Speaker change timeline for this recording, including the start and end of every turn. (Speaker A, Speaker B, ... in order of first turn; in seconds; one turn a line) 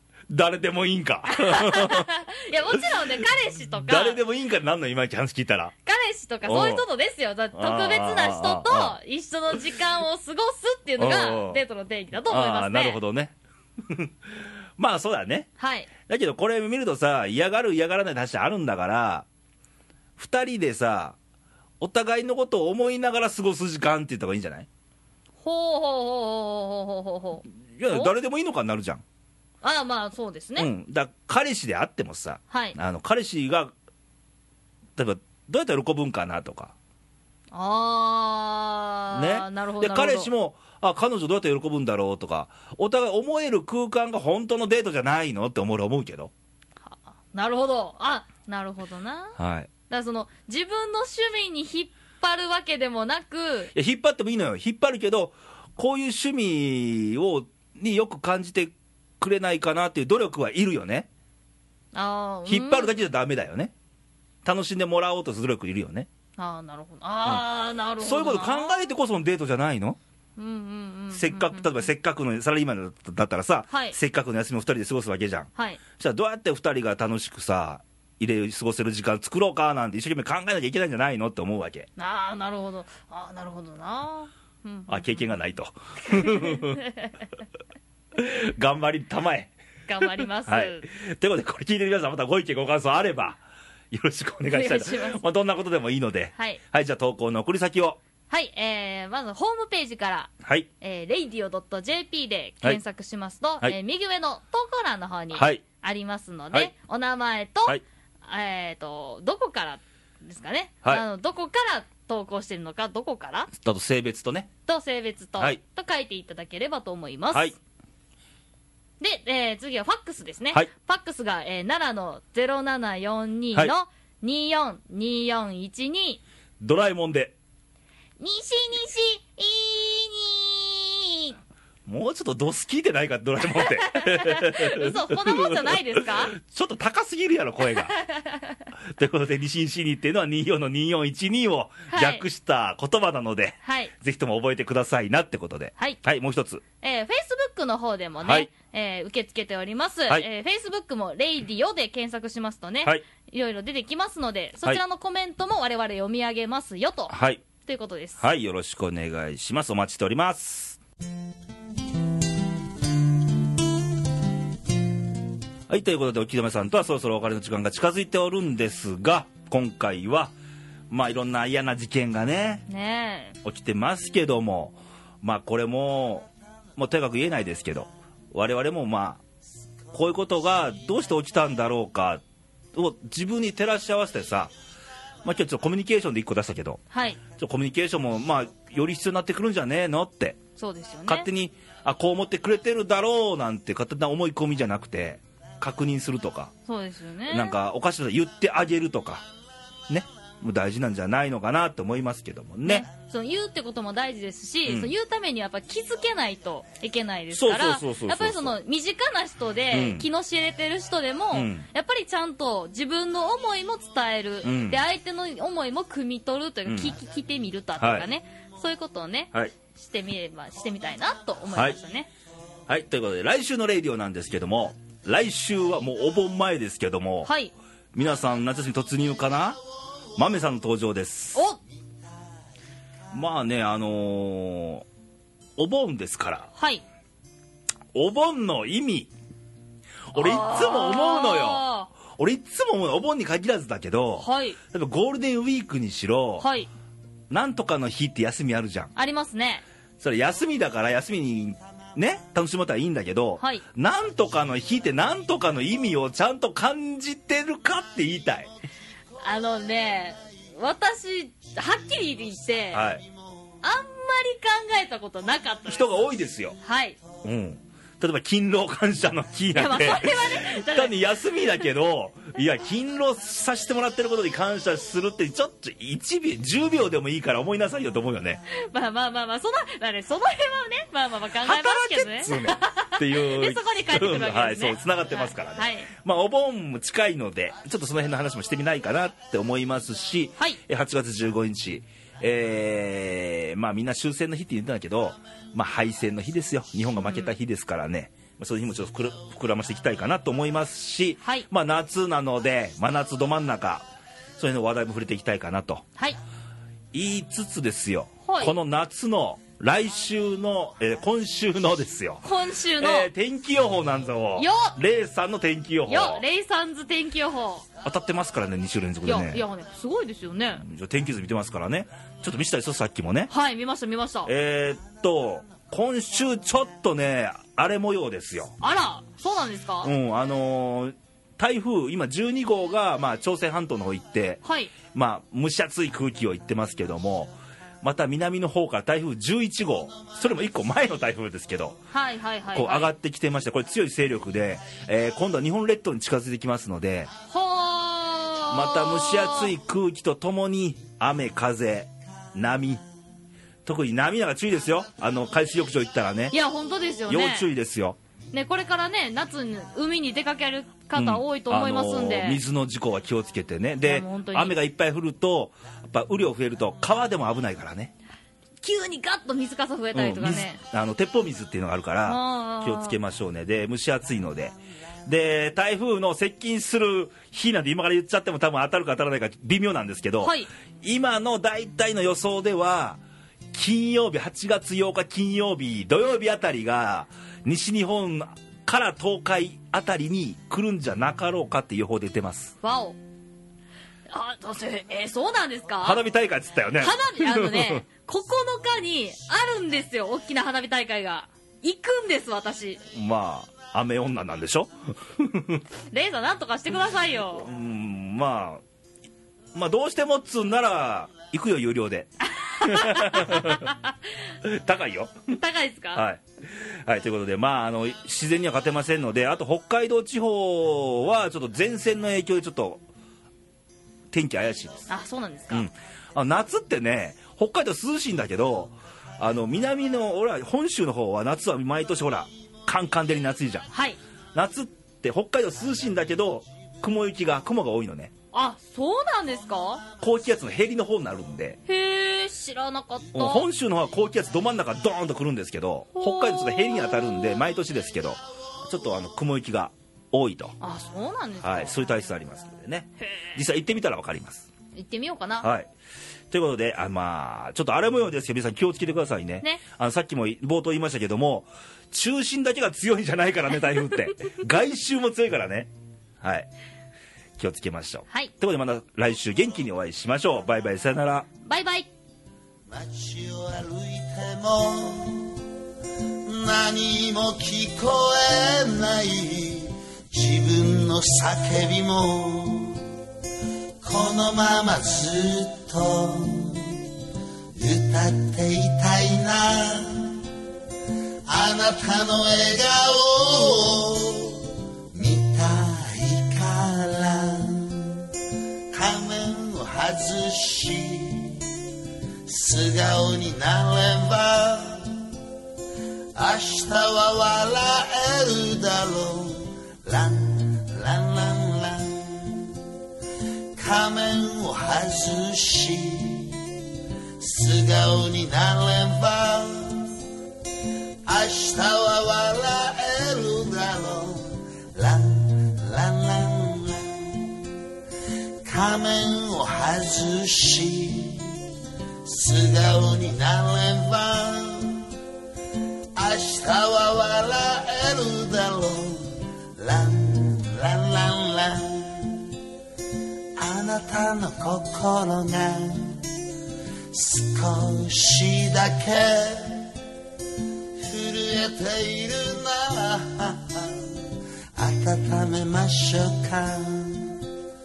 Speaker A: 0.3-2.1
Speaker B: 1.3-4.2
Speaker A: 3.9-5.7
Speaker B: 5.8-13.0
Speaker A: 6.5-6.9
Speaker A: 7.5-9.0
Speaker A: 11.0-11.6
Speaker A: 12.2-13.3
Speaker A: 13.9-14.1
Speaker A: 14.8-15.5
Speaker B: 15.6-15.9
Speaker A: 16.1-19.3
Speaker A: 20.2-21.2
Speaker A: 21.8-24.7
Speaker B: 25.4-28.1
Speaker A: 27.8-29.0
Speaker B: 29.6-30.7
Speaker A: 30.6-33.7
Speaker B: 32.5-32.8
Speaker A: 35.0-36.7
Speaker B: 37.5-40.3
Speaker A: 39.1-46.3
Speaker B: 46.8-49.4
Speaker A: 49.4-49.7
Speaker B: 49.9-53.7
Speaker A: 53.7-61.1
Speaker B: 61.9-63.0
Speaker A: 62.5-63.7
Speaker A: 64.4-66.1
Speaker B: 66.4-68.7
Speaker A: 68.0-70.0
Speaker B: 70.4-71.9
Speaker A: 71.1-81.9
Speaker B: 73.7-74.0
Speaker B: 75.5-75.8
Speaker B: 82.0-85.2
Speaker A: 84.9-86.8
Speaker B: 86.1-87.1
Speaker A: 88.2-89.5
Speaker B: 89.9-90.9
Speaker A: 90.1-98.0
Speaker B: 94.5-95.2
Speaker B: 96.3-96.6
Speaker B: 98.3-113.5
Speaker A: 105.3-105.6
Speaker A: 113.5-114.5
Speaker B: 114.7-117.5
Speaker B: 119.0-126.2
Speaker A: 126.6-127.3
Speaker B: 128.2-131.4
Speaker A: 131.9-137.9
Speaker B: 133.5-136.3
Speaker B: 137.8-138.6
Speaker A: 138.9-146.6
Speaker B: 141.9-142.2
Speaker B: 143.6-143.9
Speaker B: 146.8-158.2
Speaker A: 148.2-148.5
Speaker A: 157.1-157.4
Speaker A: 158.2-160.8
Speaker A: 165.7-170.3
Speaker A: 170.9-172.6
Speaker B: 172.7-173.4
Speaker A: 173.4-179.2
Speaker A: 179.9-182.2
Speaker A: 182.7-184.5
Speaker A: 185.2-186.8
Speaker B: 186.9-187.2
Speaker A: 187.4-190.4
Speaker B: 190.6-191.3
Speaker A: 191.1-196.5
Speaker B: 196.7-197.6
Speaker A: 197.3-199.2
Speaker A: 199.9-202.9
Speaker B: 202.7-222.1
Speaker A: 204.7-204.9
Speaker A: 207.3-208.6
Speaker A: 209.7-210.1
Speaker A: 211.3-211.7
Speaker A: 214.4-214.8
Speaker A: 216.7-216.9
Speaker A: 217.8-218.1
Speaker A: 222.7-227.3
Speaker B: 227.2-227.5
Speaker A: 227.9-229.6
Speaker A: 230.2-231.4
Speaker B: 231.3-231.6
Speaker A: 233.1-234.9
Speaker A: 235.6-236.5
Speaker B: 236.6-236.8
Speaker A: 237.9-239.1
Speaker A: 240.1-246.5
Speaker B: 240.2-241.9
Speaker B: 244.2-244.6
Speaker B: 246.4-246.7
Speaker A: 247.3-248.9
Speaker B: 248.9-249.6
Speaker A: 250.0-258.5
Speaker B: 253.4-253.6
Speaker B: 259.2-262.9
Speaker A: 262.7-263.0
Speaker B: 263.6-265.9
Speaker A: 265.7-266.6
Speaker B: 266.6-267.0
Speaker A: 267.2-278.4
Speaker B: 269.5-271.0
Speaker B: 278.5-285.9
Speaker A: 281.4-303.9
Speaker B: 297.0-297.3
Speaker B: 301.2-301.5
Speaker A: 304.4-305.8
Speaker A: 306.9-312.2
Speaker B: 308.2-308.6
Speaker B: 312.2-313.1
Speaker A: 312.8-316.2
Speaker B: 314.4-314.7
Speaker B: 315.9-317.7
Speaker A: 317.8-319.4
Speaker B: 319.0-320.6
Speaker A: 320.6-323.3
Speaker B: 323.3-324.3
Speaker A: 324.2-328.6
Speaker B: 328.6-329.9
Speaker A: 329.8-334.4
Speaker B: 334.4-334.7
Speaker A: 334.9-341.8
Speaker B: 341.9-342.9
Speaker A: 342.5-347.1
Speaker B: 347.3-349.5
Speaker A: 348.5-352.8
Speaker A: 353.6-356.3
Speaker B: 356.3-357.5
Speaker A: 357.1-358.0
Speaker B: 358.3-362.4
Speaker A: 360.9-367.9
Speaker B: 363.8-364.6
Speaker B: 368.6-370.6
Speaker A: 369.9-374.6
Speaker B: 372.1-373.0
Speaker A: 375.1-383.0
Speaker B: 380.2-380.5
Speaker A: 383.5-392.6
Speaker B: 392.6-393.0
Speaker B: 394.1-396.0
Speaker A: 395.8-397.8
Speaker B: 396.8-402.8
Speaker A: 402.9-405.6
Speaker B: 405.9-407.5
Speaker A: 407.4-408.6
Speaker A: 409.5-413.7
Speaker B: 412.3-413.9
Speaker A: 414.4-415.3
Speaker B: 415.3-416.0
Speaker A: 415.9-422.8
Speaker A: 424.1-424.9
Speaker B: 424.9-425.7
Speaker A: 425.5-433.7
Speaker B: 433.7-434.0
Speaker A: 434.3-438.1
Speaker B: 438.3-439.8
Speaker A: 440.0-441.6
Speaker B: 441.7-443.5
Speaker A: 443.1-450.6
Speaker B: 445.9-447.4
Speaker B: 450.6-451.8
Speaker A: 451.4-454.5
Speaker B: 453.0-453.4
Speaker B: 454.8-455.5
Speaker A: 455.4-455.7
Speaker A: 456.3-466.5
Speaker A: 467.4-471.3
Speaker B: 471.4-471.9
Speaker C: 472.7-475.4
Speaker C: 476.2-482.9
Speaker C: 483.8-486.8
Speaker C: 487.6-490.2
Speaker C: 491.3-498.1
Speaker C: 498.7-501.5
Speaker C: 502.3-505.1
Speaker C: 506.2-512.6
Speaker C: 513.6-516.4
Speaker C: 517.2-520.0
Speaker C: 521.1-527.5
Speaker C: 528.5-531.4
Speaker C: 532.0-534.9
Speaker C: 536.0-542.3
Speaker C: 543.4-546.0
Speaker C: 546.9-549.7
Speaker C: 550.8-557.2